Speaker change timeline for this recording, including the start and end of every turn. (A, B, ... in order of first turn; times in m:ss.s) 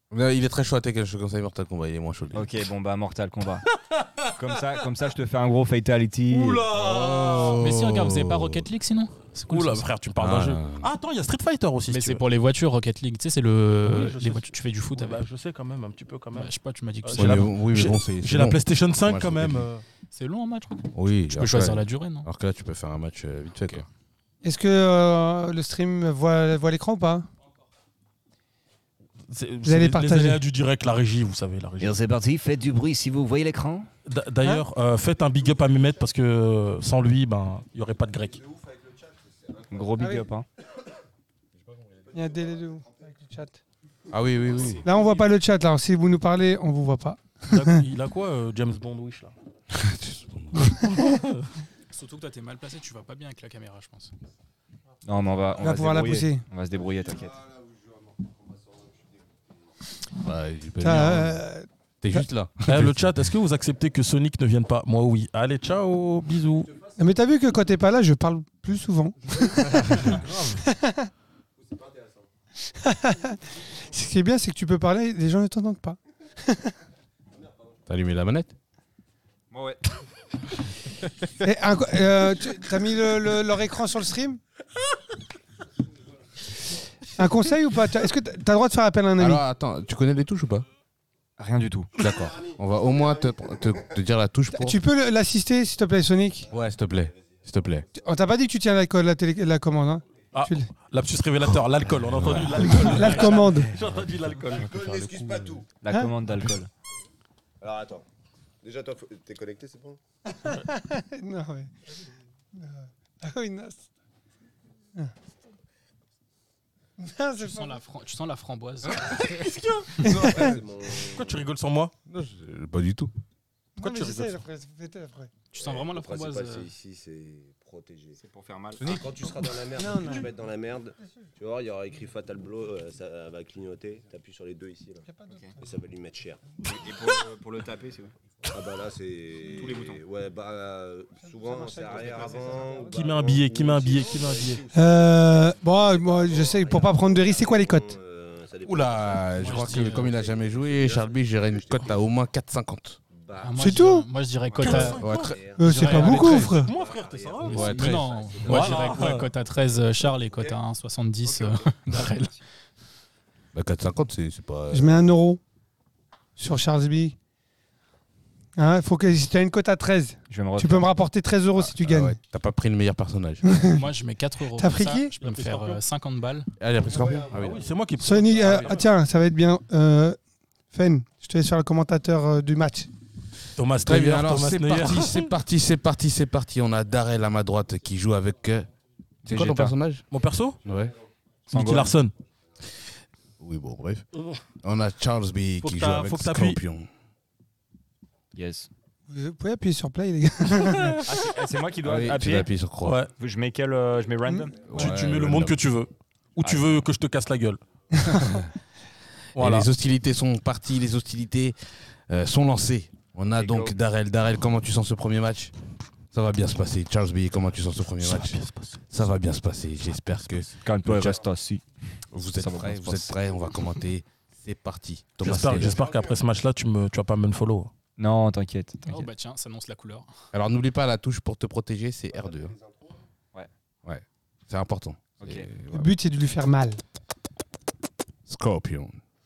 0:00.1-0:02.5 A
0:02.3-0:03.6 B
0:03.9-0:04.3 C
0:04.4-0:06.6 B
0:06.3-0:07.6 C
0:06.7-0:08.6 A
0:07.5-0:09.9 D
0:09.5-0:12.2 C
0:10.1-0:10.9 A
0:11.9-0:15.2 D
0:13.8-0:19.8 C
0:16.3-0:17.5 D
0:17.2-0:19.7 A
0:20.1-0:22.3 D
0:20.9-0:23.9 A
0:24.4-0:27.3 E
0:29.3-0:31.9 C
0:29.6-0:30.4 E
0:31.8-0:33.9 B
0:34.0-0:38.4 C
0:38.3-0:40.1 F
0:39.7-0:40.4 B
0:40.0-0:40.2 E
0:41.6-0:43.1 F
0:42.1-0:43.6 E
0:44.1-0:44.8 A
0:44.5-0:45.3 D
0:44.8-0:47.8 E
0:47.5-0:49.3 C
0:49.7-0:50.7 A
0:50.8-0:51.5 C
0:51.9-0:54.1 D
0:55.0-0:57.4 B
0:55.6-0:56.4 E
0:56.8-0:59.7 F
1:00.2-1:01.4 A
1:00.8-1:01.7 E
1:02.0-1:03.3 A
1:02.6-1:06.7 C
1:07.0-1:11.1 E
1:09.8-1:10.1 A
1:10.0-1:10.6 C
1:11.6-1:12.3 F
1:12.7-1:16.7 E
1:17.9-1:18.5 A
1:19.5-1:19.8 B
1:21.4-1:24.4 E
1:27.2-1:29.4 E
1:29.2-1:30.6 A
1:31.4-1:31.9 B
1:32.0-1:34.8 A
1:32.1-1:34.0 F
1:34.5-1:36.5 E
1:36.4-1:38.0 F
1:36.5-1:37.8 A
1:38.0-1:40.7 E
1:40.3-1:45.6 C
1:41.4-1:43.1 A
1:42.6-1:43.7 E
1:44.5-1:45.7 F
1:45.8-1:46.7 B
1:47.6-1:48.0 F
1:48.6-1:50.0 F
1:50.4-1:51.7 E
1:52.5-1:53.9 E
1:57.0-1:57.8 E
1:57.4-1:59.0 D
1:58.9-2:00.0 C
2:00.0-2:00.6 A
2:00.1-2:01.4 F
2:00.2-2:00.6 E
2:01.1-2:01.9 C
2:02.1-2:03.1 A
2:03.8-2:05.3 E
2:03.8-2:04.4 C
2:05.5-2:06.7 D
2:05.5-2:08.2 F
2:08.2-2:09.0 B
2:08.8-2:09.4 A
2:08.8-2:16.6 F
2:09.8-2:10.3 E
2:15.1-2:15.5 E
2:16.6-2:18.1 B
2:18.5-2:32.0 F
2:19.5-2:20.0 B
2:21.2-2:23.0 E
2:22.9-2:24.6 C
2:24.7-2:27.9 E
2:28.6-2:33.0 A
2:29.4-2:30.0 C
2:29.5-2:30.0 D
2:33.1-2:40.6 F
2:33.4-2:35.0 D
2:33.6-2:34.1 E
2:34.6-2:35.4 C
2:34.9-2:36.6 A
2:35.6-2:36.7 E
2:35.6-2:36.4 D
2:36.1-2:37.9 C
2:37.4-2:38.8 A
2:37.6-2:42.3 D
2:38.4-2:39.3 C
2:41.2-2:41.9 F
2:41.9-2:42.3 B
2:43.5-2:45.1 A
2:44.7-2:45.4 E
2:46.4-2:47.1 E
2:48.6-2:52.2 E
2:50.3-2:50.9 B
2:51.6-2:53.4 A
2:53.4-2:53.8 E
2:53.6-2:56.5 D
2:54.5-2:55.1 E
2:55.2-2:55.8 C
2:56.6-2:57.6 A
2:56.8-2:57.8 F
2:57.2-2:58.9 C
2:58.0-3:00.2 E
3:00.7-3:02.9 E
3:03.6-3:05.2 C
3:03.8-3:08.7 A
3:09.2-3:10.0 A
3:09.3-3:09.7 B
3:09.4-3:10.6 C
3:10.6-3:10.9 A
3:10.6-3:10.9 F
3:11.5-3:12.0 B
3:11.5-3:12.1 C
3:13.4-3:14.0 A
3:14.1-3:14.4 C
3:14.6-3:16.9 A
3:15.6-3:16.6 C
3:18.3-3:18.7 B
3:19.1-3:21.0 E
3:20.6-3:21.0 C
3:21.1-3:22.5 B
3:21.8-3:23.0 A
3:22.8-3:23.1 C
3:23.2-3:24.7 B
3:24.6-3:25.6 A
3:24.7-3:27.6 C
3:26.4-3:26.8 B
3:29.4-3:29.7 C
3:29.4-3:31.5 A
3:32.1-3:35.5 A
3:33.3-3:33.7 B
3:36.1-3:41.2 A
3:38.0-3:38.9 C
3:40.2-3:40.5 C
3:40.6-3:43.5 B
3:42.1-3:45.8 A
3:45.2-3:47.7 C
3:45.3-3:46.2 F
3:48.0-3:49.1 B
3:48.9-3:50.1 D
3:50.3-3:52.5 A
3:52.1-3:53.0 F
3:53.8-3:55.9 A
3:55.2-3:55.5 B
3:55.7-3:56.8 E
3:58.3-3:59.0 A